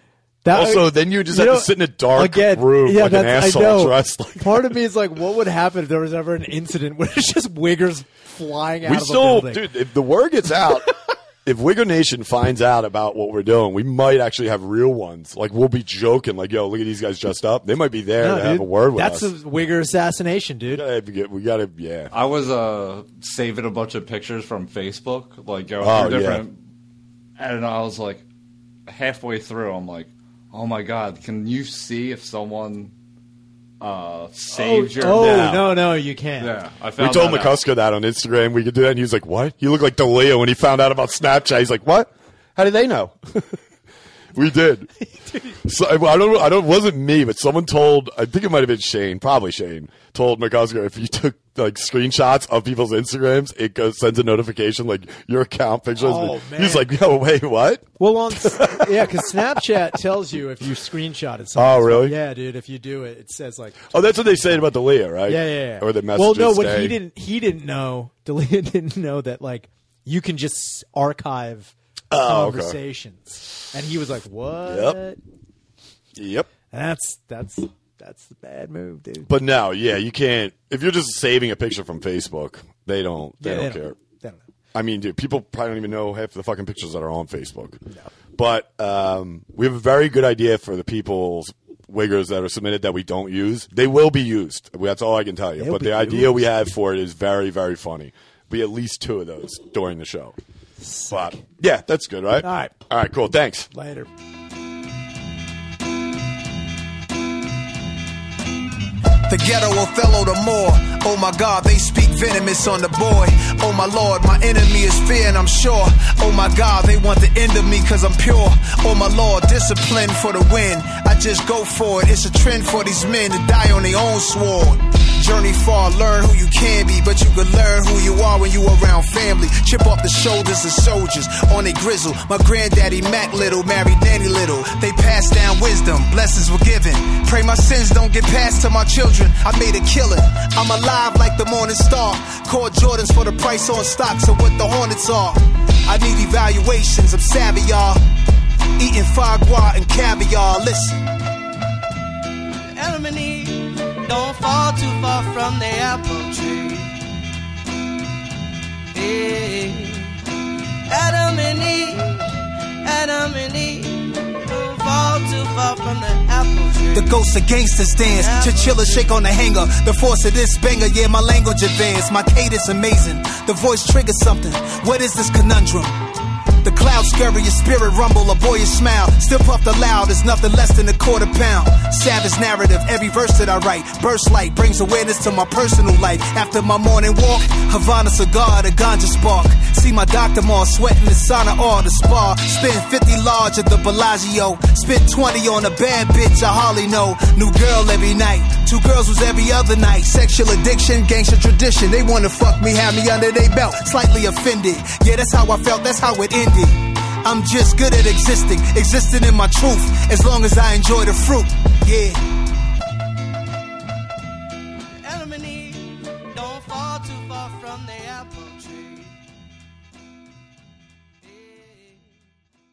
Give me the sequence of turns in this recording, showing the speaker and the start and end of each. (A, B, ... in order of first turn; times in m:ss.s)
0:00.4-0:09.7 A
0:00.5-0:04.7 B
0:08.8-0:10.9 B
0:11.4-0:19.3 B
0:18.2-0:20.8 A
0:20.7-0:22.1 B
0:22.1-0:26.6 C
0:25.8-0:26.4 B
0:27.4-0:28.2 C
0:28.9-0:32.9 C
0:33.8-0:35.6 C
0:34.5-0:36.6 A
0:35.0-0:35.7 B
0:36.4-0:37.6 C
0:37.0-0:43.6 B
0:44.3-0:44.9 B
0:45.5-0:59.6 B
0:56.0-0:56.9 A
0:58.0-1:04.6 A
1:01.6-1:02.1 B
1:03.9-1:07.0 B
1:05.3-1:15.2 A
1:12.1-1:12.8 B
1:14.6-1:15.0 B
1:16.2-1:16.5 B
1:16.7-1:19.3 A
1:19.3-1:24.0 B
1:23.4-1:24.4 A
1:24.7-1:27.8 B
1:28.4-1:40.4 B
1:35.6-1:36.4 A
1:40.8-1:41.4 A
1:41.1-1:43.7 B
1:42.4-1:42.7 A
1:43.7-1:44.1 A
1:49.3-2:28.0 D
2:28.8-2:31.0 D
2:32.7-2:37.0 E
2:38.9-2:40.3 E
2:40.9-2:47.2 E
2:46.9-2:56.1 D
2:48.1-2:49.2 E
2:56.6-3:32.2 D
3:35.0-3:39.2 E
3:41.2-3:42.2 E